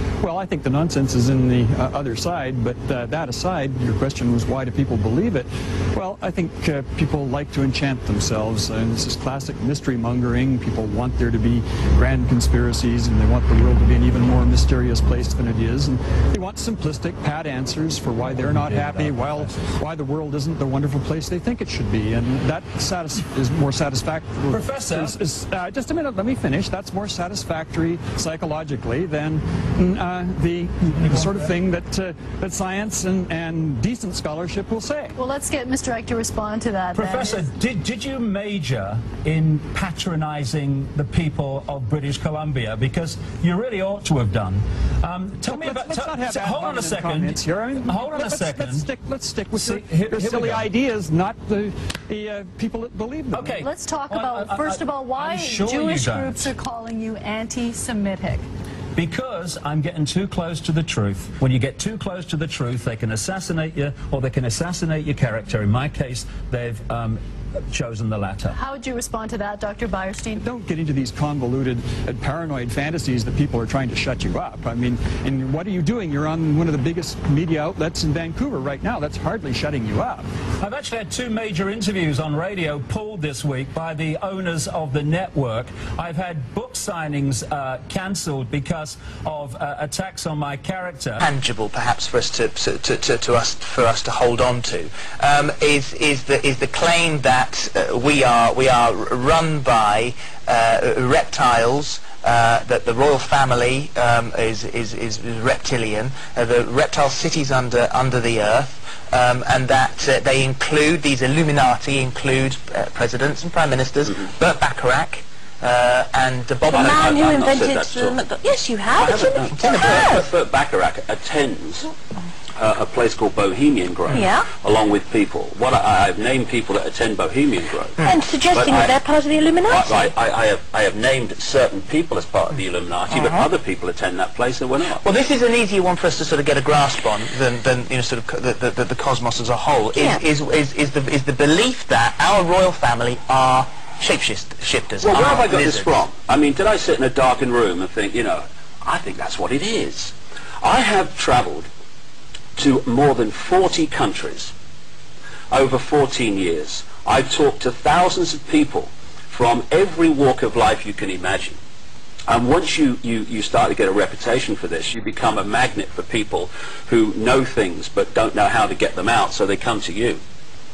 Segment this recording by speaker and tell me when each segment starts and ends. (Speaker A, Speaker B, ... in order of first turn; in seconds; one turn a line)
Speaker A: 0.2-35.1
Speaker B: 24.5-25.1
Speaker B: 31.0-31.5
Speaker C: 35.1-37.5
Speaker B: 36.9-48.9
Speaker A: 45.4-53.6
Speaker B: 49.5-50.6
Speaker B: 53.3-56.5
Speaker C: 53.5-58.5
Speaker B: 59.0-68.6
Speaker C: 68.5-70.5
Speaker A: 70.4-80.2
Speaker B: 80.6-91.2
Speaker D: 91.2-117.2
Speaker E: 116.7-120.2
Speaker F: 116.7-118.4
Speaker F: 118.9-121.9
Speaker D: 119.0-120.2
Speaker F: 122.6-128.0
Speaker E: 124.1-124.5
Speaker E: 128.0-130.1
Speaker F: 128.5-129.0
Speaker F: 129.7-135.0
Speaker D: 133.1-133.4
Speaker D: 135.0-146.0
Speaker E: 140.0-140.2
Speaker F: 145.0-151.7
Speaker F: 152.6-154.5
Speaker F: 155.5-161.6
Speaker F: 162.3-170.2